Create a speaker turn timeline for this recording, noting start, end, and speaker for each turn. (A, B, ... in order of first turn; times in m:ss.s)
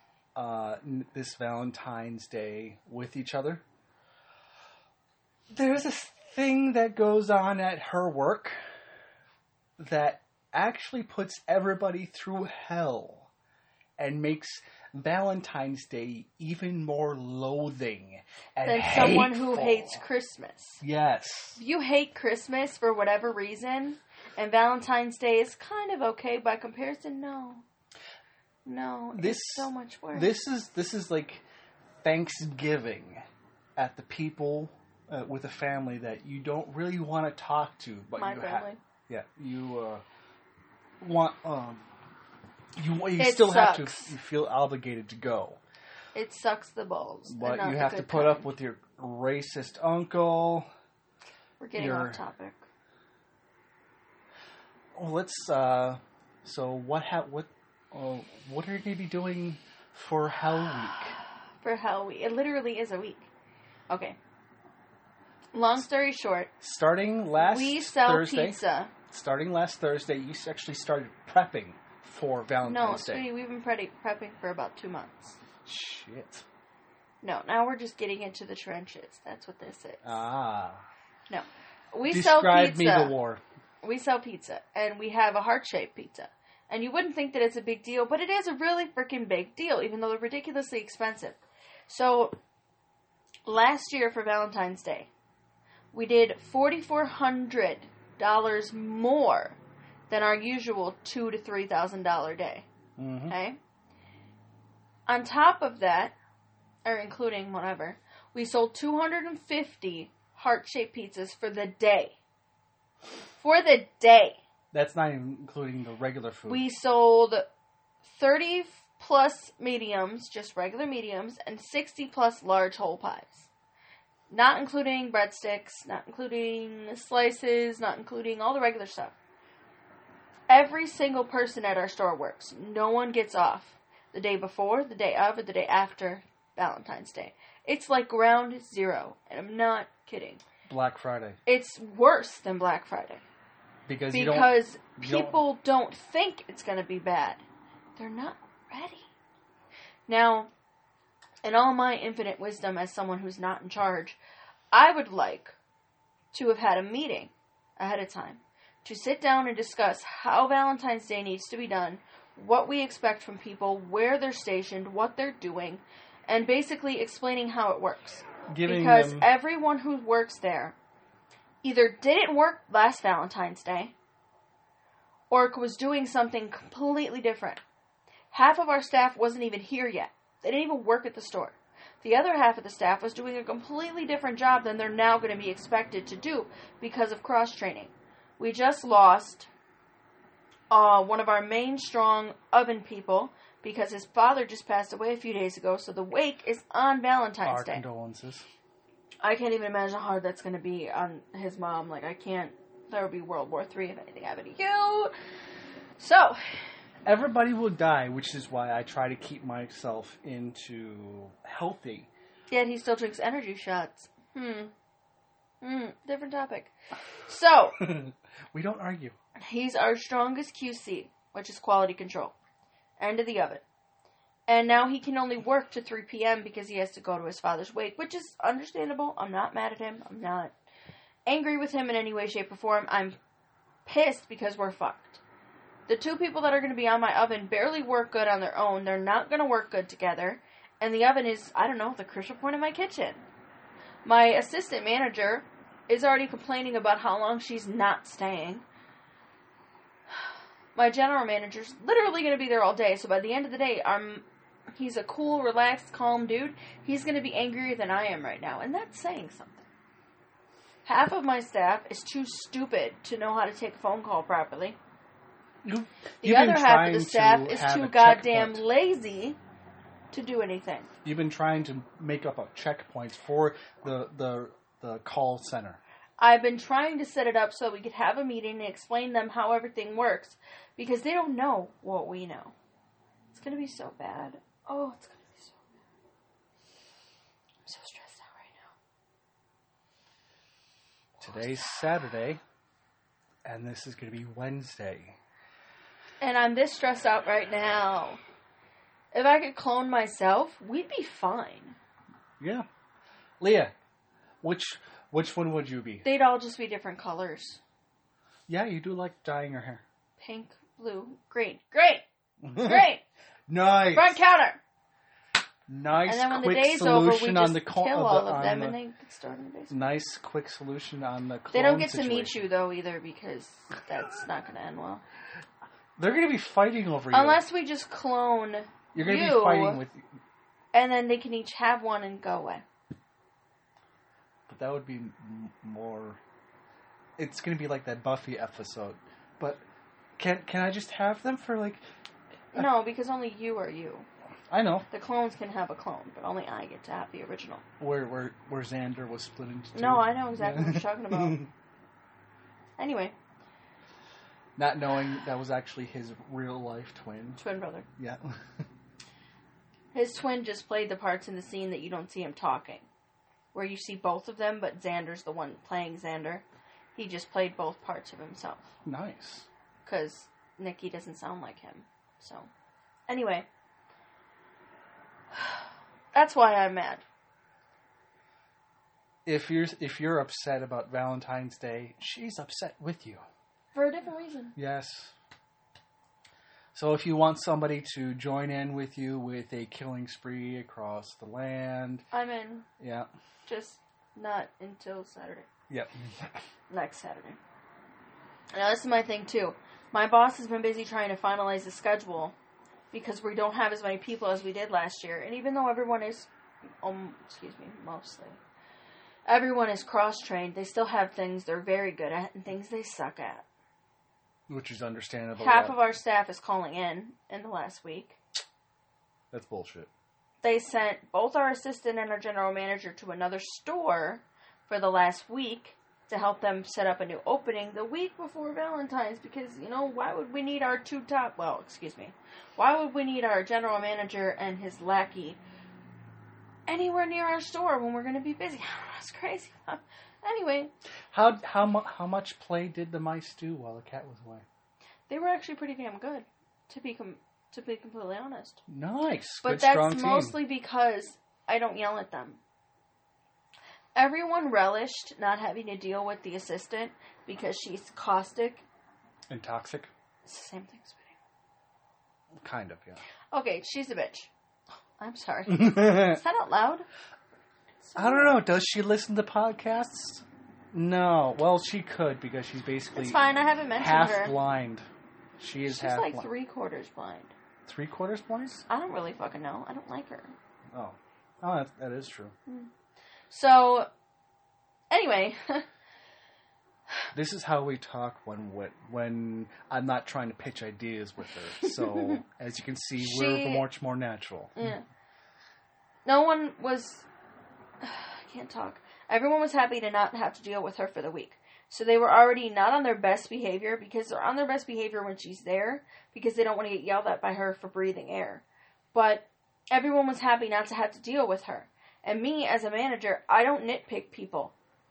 0:00.3-0:03.6 A
0:05.5-0:08.6 A
0:09.8-0:13.3 A
0:14.0-0:20.0 A
0:18.6-0:20.8 B
0:20.8-0:21.6 A
0:21.6-0:27.6 B
0:28.6-0:30.3 B
0:29.1-0:31.4 A
0:32.0-0:33.2 A
0:33.8-0:40.0 A
0:38.2-0:38.8 B
0:41.0-0:41.9 A
0:42.8-0:45.6 A
0:43.2-0:44.1 B
0:46.1-0:48.5 B
0:47.3-0:50.7 A
0:51.6-0:52.6 B
0:51.8-0:52.2 A
0:54.9-1:01.2 A
1:01.6-1:03.3 B
1:03.9-1:04.2 B
1:05.5-1:06.5 B
1:06.6-1:13.3 A
1:07.4-1:08.9 B
1:12.6-1:15.4 B
1:15.6-1:16.4 A
1:17.2-1:20.3 B
1:20.0-1:20.8 A
1:21.3-1:23.1 B
1:22.1-1:23.4 A
1:23.8-1:32.4 B
1:33.4-1:35.1 B
1:35.9-1:39.6 B
1:40.1-1:42.6 B
1:43.0-1:43.3 A
1:43.3-1:43.6 B
1:45.1-1:46.2 B
1:46.8-1:52.1 B
1:53.4-1:54.4 B
1:54.7-1:56.6 A
1:56.5-1:57.5 B
1:58.0-2:03.5 B
2:04.3-2:09.1 B
2:10.5-2:20.4 B
2:20.6-2:21.4 A
2:21.4-2:23.2 B
2:23.9-2:25.4 A
2:24.1-2:27.4 B
2:28.0-2:29.1 B
2:30.1-2:30.5 B
2:31.4-2:34.2 B
2:34.7-2:35.5 B
2:36.3-2:50.7 B
2:48.5-2:49.3 A
2:51.6-2:53.9 B
2:55.3-2:57.6 B
2:58.3-3:09.5 B
3:10.7-3:17.8 B
3:17.4-3:18.4 A
3:19.2-3:25.1 B
3:26.0-3:26.4 B
3:27.0-3:32.1 A
3:32.5-3:34.7 B
3:35.6-3:36.7 B
3:37.3-3:37.8 B
3:37.8-3:39.2 A
3:39.4-3:42.3 B
3:43.0-3:43.6 B
3:44.5-3:50.5 B
3:51.2-3:53.2 B
3:53.8-3:55.2 B
3:55.9-4:03.2 B
4:04.0-4:08.6 B
4:10.8-4:19.6 B
4:20.8-4:24.8 B
4:25.6-4:28.6 A
4:26.2-4:29.4 B
4:30.1-4:30.9 B
4:31.0-4:35.8 A
4:36.2-4:42.5 B
4:43.3-4:45.6 B
4:47.6-4:48.7 B
4:51.2-4:51.7 B
4:51.2-4:52.4 A
4:53.4-4:55.2 A
4:56.2-4:58.2 B
4:59.1-5:01.8 B
5:02.4-5:02.7 A
5:03.4-5:03.7 A
5:04.4-5:06.0 A
5:06.0-5:07.6 B
5:08.5-5:09.8 A
5:10.2-5:13.0 B
5:12.4-5:12.9 A
5:13.5-5:14.2 A
5:13.9-5:14.6 B
5:15.7-5:18.8 A
5:16.0-5:19.8 B
5:19.7-5:22.4 A
5:21.5-5:25.0 B
5:26.0-5:27.4 A
5:27.1-5:29.8 B
5:28.9-5:30.0 A
5:30.7-5:32.6 B
5:34.5-5:36.2 A
5:37.2-5:39.6 A
5:40.2-5:41.8 A
5:42.5-5:44.1 B
5:44.5-5:44.9 A
5:44.9-5:47.6 B
5:47.8-5:51.5 A
5:49.7-5:51.4 B
5:52.8-5:53.1 B
5:54.6-5:57.4 A
5:57.4-5:57.8 B
5:58.0-5:58.4 A
5:59.9-6:02.8 B
6:03.5-6:06.4 B
6:06.9-6:08.7 B
6:08.8-6:09.5 A
6:09.8-6:12.5 B
6:13.1-6:13.4 B
6:16.1-6:17.0 B
6:19.2-6:23.2 A
6:23.7-6:24.6 B
6:24.6-6:25.1 A
6:26.7-6:32.0 A
6:32.1-6:32.6 B
6:32.8-6:33.1 A
6:33.4-6:35.5 B
6:35.7-6:36.3 A
6:36.7-6:37.4 B
6:38.5-6:42.3 B
6:42.9-6:46.3 B
6:46.8-6:48.4 B
6:49.3-6:53.4 B
6:54.5-6:55.8 A
6:55.4-6:58.2 B
6:59.3-6:59.9 A
7:00.4-7:15.4 B
7:16.7-7:20.7 B
7:21.1-7:24.4 A
7:25.1-7:28.6 B
7:28.7-7:30.4 A
7:29.4-7:32.4 B
7:33.9-7:38.6 B
7:39.3-7:39.9 A
7:40.2-7:41.1 B
7:42.4-7:43.0 A
7:43.3-7:44.3 B
7:45.0-7:46.8 B
7:45.5-7:46.2 A
7:47.8-7:48.4 B
7:48.0-7:53.2 A
7:52.9-7:54.4 B
7:53.8-7:54.8 A
7:55.4-7:56.3 A
7:55.7-7:57.3 B
7:57.6-7:58.6 A
7:58.7-8:00.3 B
8:00.7-8:02.3 A
8:03.3-8:03.9 B
8:04.9-8:05.6 B
8:07.1-8:14.6 A
8:11.8-8:12.2 B
8:13.0-8:13.6 B
8:14.6-8:14.8 B
8:16.0-8:17.0 B
8:17.8-8:34.5 B